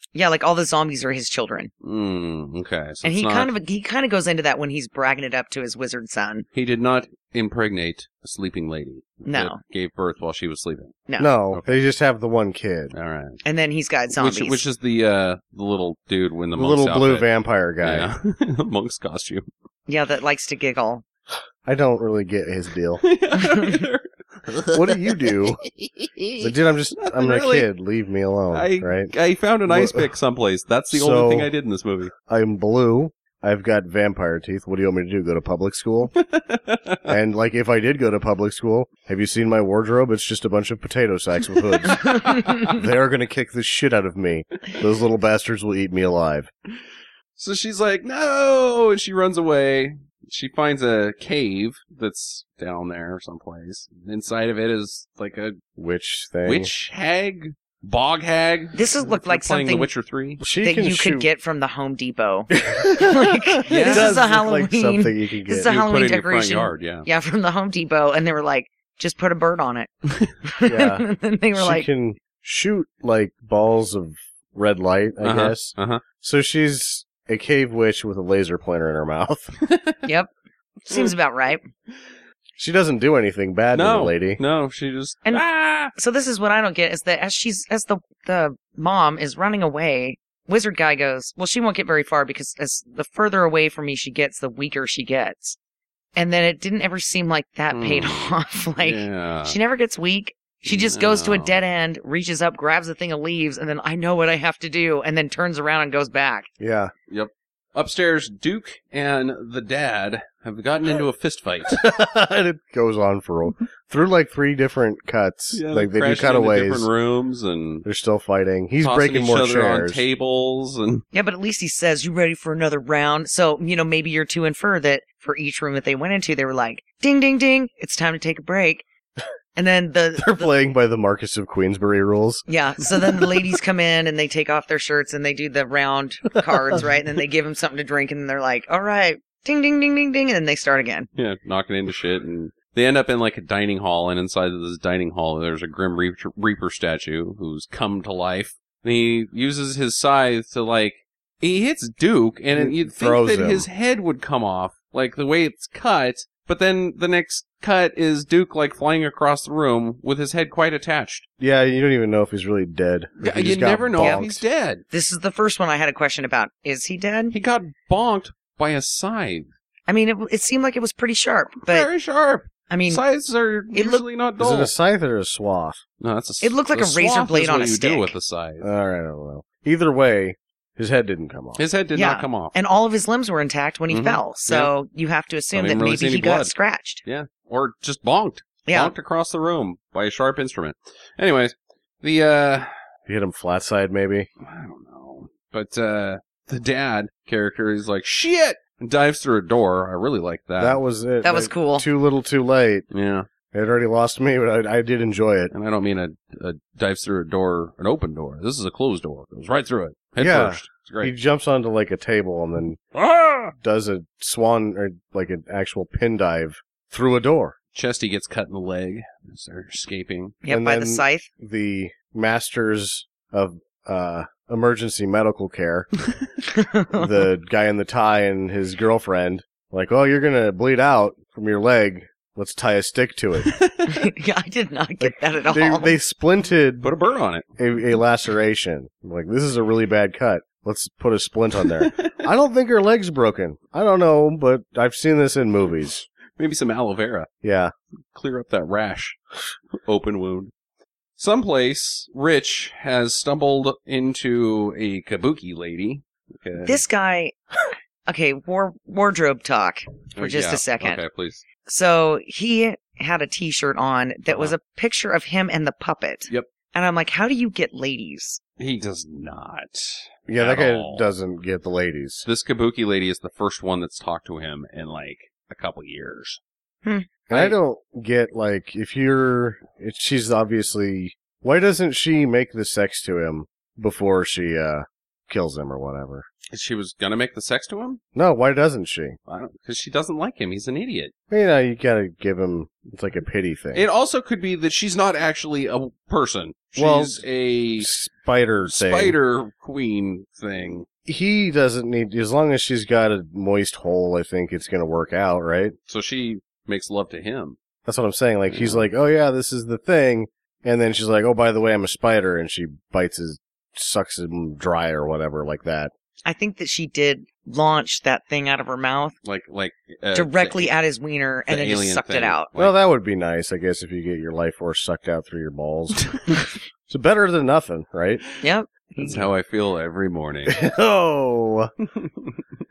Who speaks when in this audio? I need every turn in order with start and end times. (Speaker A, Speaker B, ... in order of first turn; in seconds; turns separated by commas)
Speaker A: 0.1-1.7, Speaker B: 1.8-3.5, Speaker A: 3.0-6.5, Speaker B: 6.5-11.8, Speaker A: 9.3-9.6, Speaker A: 11.1-11.3, Speaker C: 11.2-12.9, Speaker B: 12.9-13.4, Speaker A: 13.4-14.6, Speaker B: 14.1-17.3, Speaker C: 16.6-18.1, Speaker B: 17.8-19.5, Speaker A: 19.9-21.0, Speaker C: 21.6-23.0, Speaker B: 23.0-27.7, Speaker A: 23.6-23.8, Speaker C: 24.7-25.6, Speaker C: 26.4-29.1, Speaker B: 28.5-32.1, Speaker C: 29.7-30.1, Speaker C: 30.9-31.5, Speaker C: 32.3-36.1, Speaker B: 36.1-37.1, Speaker C: 37.1-46.5, Speaker B: 41.8-42.8, Speaker B: 47.4-55.6, Speaker C: 55.8-56.7, Speaker B: 56.5-60.4, Speaker A: 58.8-59.9, Speaker C: 60.4-61.3, Speaker A: 60.6-69.9, Speaker C: 62.6-65.7, Speaker B: 63.7-64.2, Speaker B: 65.7-67.1, Speaker A: 70.4-71.9, Speaker C: 70.7-79.5, Speaker B: 75.2-76.0, Speaker B: 79.6-80.1, Speaker A: 80.9-81.6, Speaker C: 82.6-84.4, Speaker B: 83.7-85.9, Speaker A: 86.0-95.6, Speaker A: 96.2-106.5, Speaker B: 97.7-99.6, Speaker B: 100.7-101.6, Speaker C: 106.6-106.9, Speaker B: 107.1-111.8, Speaker C: 111.7-116.9, Speaker B: 115.5-117.9, Speaker C: 117.8-120.0, Speaker B: 118.8-121.0, Speaker A: 121.1-128.8, Speaker A: 129.6-130.5, Speaker C: 130.2-133.5, Speaker A: 132.5-141.1, Speaker B: 141.2-161.3, Speaker C: 152.5-153.7, Speaker C: 161.4-164.4, Speaker B: 163.2-164.8, Speaker A: 164.0-164.2, Speaker A: 164.9-167.3, Speaker B: 167.3-169.5, Speaker A: 169.9-171.9, Speaker B: 171.7-174.7, Speaker A: 172.7-173.0, Speaker A: 173.7-174.0, Speaker C: 174.4-175.8, Speaker B: 176.0-178.7, Speaker A: 176.4-178.2, Speaker C: 178.6-181.6, Speaker B: 181.6-182.5, Speaker A: 181.9-187.0, Speaker B: 183.9-184.7, Speaker B: 185.5-186.5, Speaker B: 187.0-192.7, Speaker A: 188.7-188.9, Speaker C: 193.1-194.3, Speaker B: 194.4-200.8, Speaker C: 200.6-202.9, Speaker A: 201.2-201.9, Speaker B: 202.9-203.3, Speaker C: 203.5-205.5, Speaker B: 205.5-211.1, Speaker C: 210.2-212.8, Speaker B: 212.9-213.5, Speaker C: 213.6-217.6, Speaker B: 217.7-220.4, Speaker A: 220.4-221.3, Speaker C: 220.5-225.9, Speaker A: 226.5-227.3, Speaker C: 226.9-233.6, Speaker B: 233.4-234.0, Speaker A: 233.9-235.9, Speaker C: 235.0-236.9, Speaker B: 236.8-237.5, Speaker C: 237.6-246.1, Speaker B: 241.8-242.2, Speaker B: 246.4-247.3, Speaker C: 247.4-247.7, Speaker B: 248.1-249.2, Speaker B: 249.7-250.5, Speaker B: 251.2-256.8, Speaker A: 256.6-257.4, Speaker A: 258.1-261.0, Speaker B: 260.1-261.4, Speaker A: 261.6-268.4, Speaker B: 264.3-264.6, Speaker B: 268.6-271.1, Speaker C: 270.3-272.3, Speaker B: 272.2-276.4, Speaker A: 276.9-277.1, Speaker C: 277.3-286.3, Speaker B: 286.5-288.0, Speaker C: 288.1-289.2, Speaker B: 289.3-291.1, Speaker C: 291.3-293.9, Speaker B: 293.7-297.9, Speaker C: 296.8-297.2, Speaker C: 297.8-299.2, Speaker B: 298.7-300.9, Speaker C: 301.1-305.8, Speaker B: 305.9-307.6, Speaker C: 307.9-315.9, Speaker B: 308.5-308.9, Speaker A: 316.2-319.2, Speaker B: 319.2-320.7, Speaker A: 320.1-322.5, Speaker B: 321.5-322.7, Speaker C: 322.6-326.2, Speaker B: 326.0-326.4, Speaker C: 326.9-328.2, Speaker A: 328.4-329.3, Speaker B: 329.0-330.6, Speaker C: 330.5-331.7, Speaker B: 331.9-332.4